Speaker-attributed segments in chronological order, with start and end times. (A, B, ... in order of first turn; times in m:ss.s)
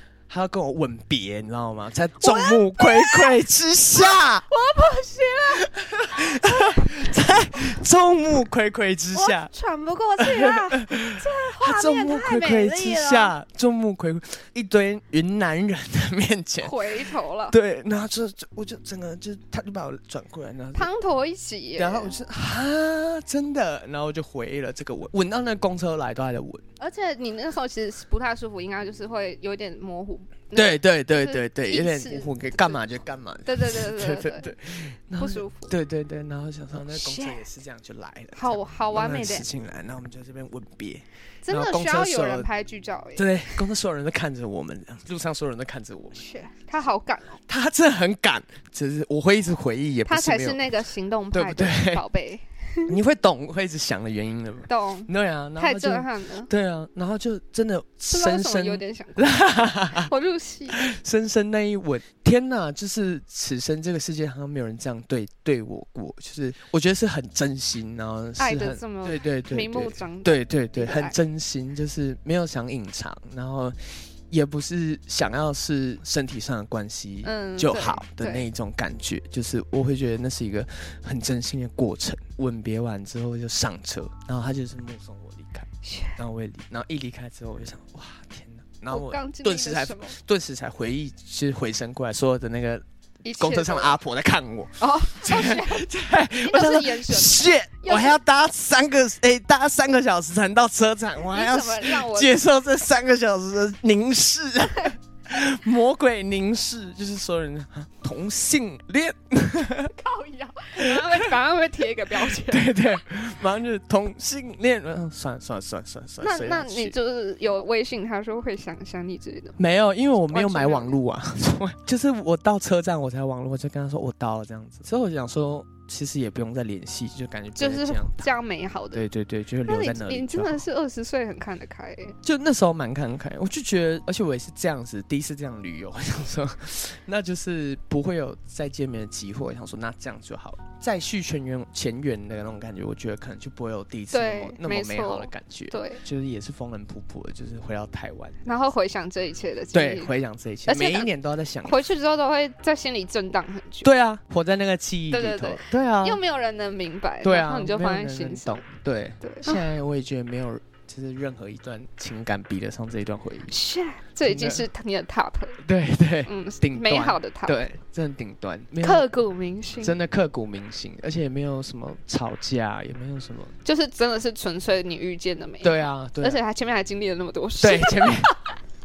0:00.3-0:04.5 A
0:02.2-0:03.4 B
0:04.0-0:07.0 B
0:05.5-0:09.5 A
0:09.2-0:13.3 B
0:10.2-0:16.9 A
0:16.6-0:17.5 B
0:17.5-0:20.9 A
0:20.8-0:22.2 B
0:21.8-0:26.6 A
0:26.8-0:30.6 B
0:30.5-0:42.5 A
0:31.1-0:32.8 B
0:33.5-0:34.5 B
0:35.2-0:35.7 B
0:36.9-0:37.4 B
0:38.4-0:39.4 B
0:41.4-0:43.3 B
0:43.2-0:46.2 A
0:46.2-0:47.4 B
0:47.5-0:50.7 A
0:50.1-0:52.9 B
0:51.3-0:52.0 A
0:52.9-1:00.1 A
0:54.7-0:56.5 B
0:58.1-0:59.4 B
1:00.0-1:00.8 B
1:00.7-1:49.9 A
1:08.4-1:11.1 B
1:17.2-1:18.4 B
1:25.8-1:26.2 B
1:28.9-1:30.2 B
1:33.2-1:33.9 B
1:34.8-1:35.9 B
1:36.4-1:38.2 B
1:41.3-1:42.3 B
1:49.9-1:52.7 B
1:50.8-1:51.3 A
1:52.1-1:57.0 A
1:56.2-1:59.6 B
1:59.6-2:08.3 A
2:00.3-2:01.0 B
2:07.6-2:09.0 B
2:08.9-2:10.6 A
2:09.7-2:12.1 B
2:12.2-2:28.4 A
2:24.1-2:26.0 B
2:28.4-2:30.1 B
2:29.7-2:31.9 A
2:30.7-2:31.1 B
2:31.7-2:33.9 B
2:33.8-2:36.2 A
2:35.1-2:38.6 B
2:37.2-2:43.6 A
2:39.2-2:39.6 B
2:43.5-2:45.6 B
2:44.2-2:44.7 A
2:45.6-2:49.1 A
2:46.3-2:47.6 B
2:48.8-2:50.0 B
2:49.8-2:53.5 A
2:53.6-2:58.3 B
2:55.6-2:56.4 A
2:57.6-2:58.4 A